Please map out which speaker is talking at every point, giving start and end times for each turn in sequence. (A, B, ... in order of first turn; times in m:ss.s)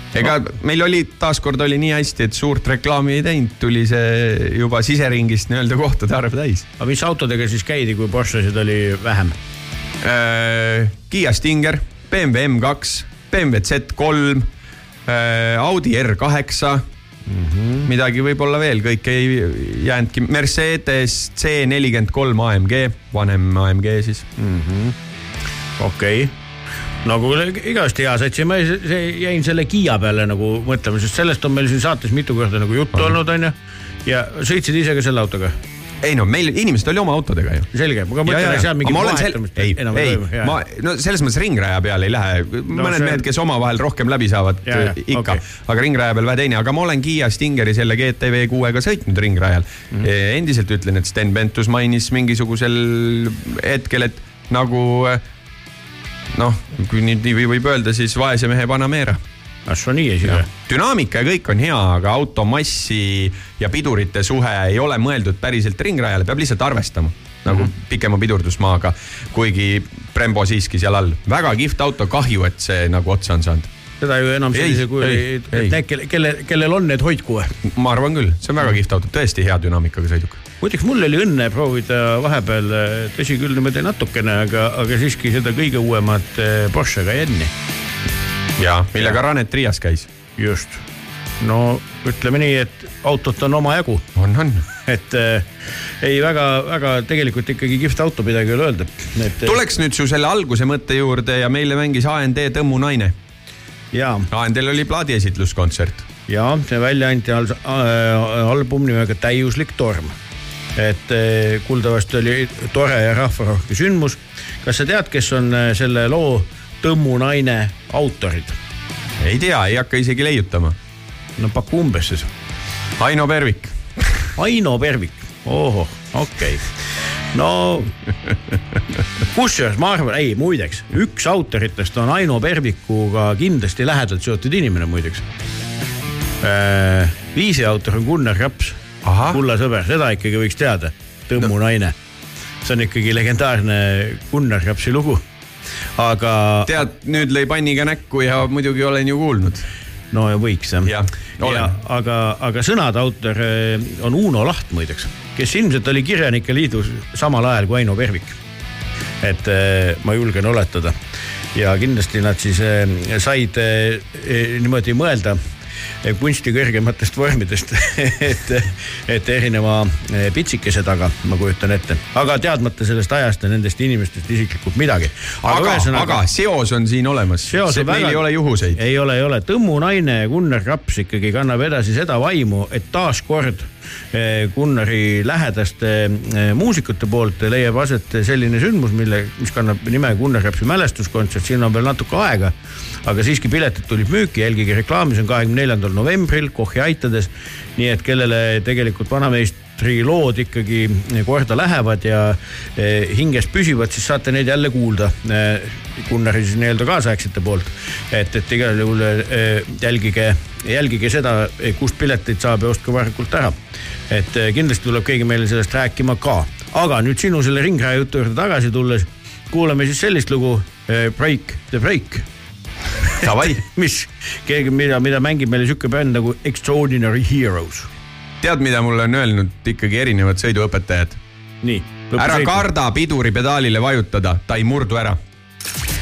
0:00.1-0:06.7 A
0:06.8-0:09.4 B
0:10.0-0:14.5 A
0:15.1-0:16.8 A
0:17.3-0:17.9 B
0:17.9-0:24.2 A
0:24.4-0:25.0 B
0:25.8-0:26.3 B
0:27.0-0:33.5 B
0:34.0-0:35.5 B
0:36.0-0:37.7 A
0:37.7-0:40.6 B
0:38.2-0:55.2 A
0:42.7-0:43.2 B
0:44.7-0:45.4 B
0:56.3-0:59.2 A
0:59.7-1:00.5 B
1:00.3-1:13.7 A
1:14.0-1:17.5 B
1:14.5-1:15.8 A
1:17.7-1:20.4 A
1:20.6-1:27.5 B
1:28.6-1:30.1 A
1:30.4-1:30.8 B
1:31.4-1:34.0 B
1:34.2-1:34.7 A
1:34.9-1:35.5 B
1:36.0-1:39.6 B
1:39.4-1:43.1 A
1:43.9-1:44.3 B
1:44.3-1:46.1 A
1:46.3-1:50.1 B
1:50.8-1:58.6 B
1:59.2-2:00.8 A
2:01.4-2:02.3 B
2:03.0-2:03.8 A
2:04.4-2:06.6 B
2:07.3-2:07.9 B
2:09.3-2:15.2 B
2:16.4-2:22.0 B
2:19.0-2:19.4 A
2:22.6-2:25.2 B
2:26.0-2:26.8 B
2:26.7-2:29.6 A
2:30.1-2:38.4 B
2:30.8-2:31.7 A
2:39.2-2:41.0 B
2:41.6-2:45.4 B
2:46.0-2:56.2 B
2:55.4-2:58.8 A
2:57.5-3:12.5 B
3:13.0-3:33.6 B
3:34.1-3:42.2 B
3:43.2-3:43.6 A
3:43.2-3:47.9 B
3:48.4-3:51.2 A
3:51.6-3:52.7 B
3:52.2-3:55.2 A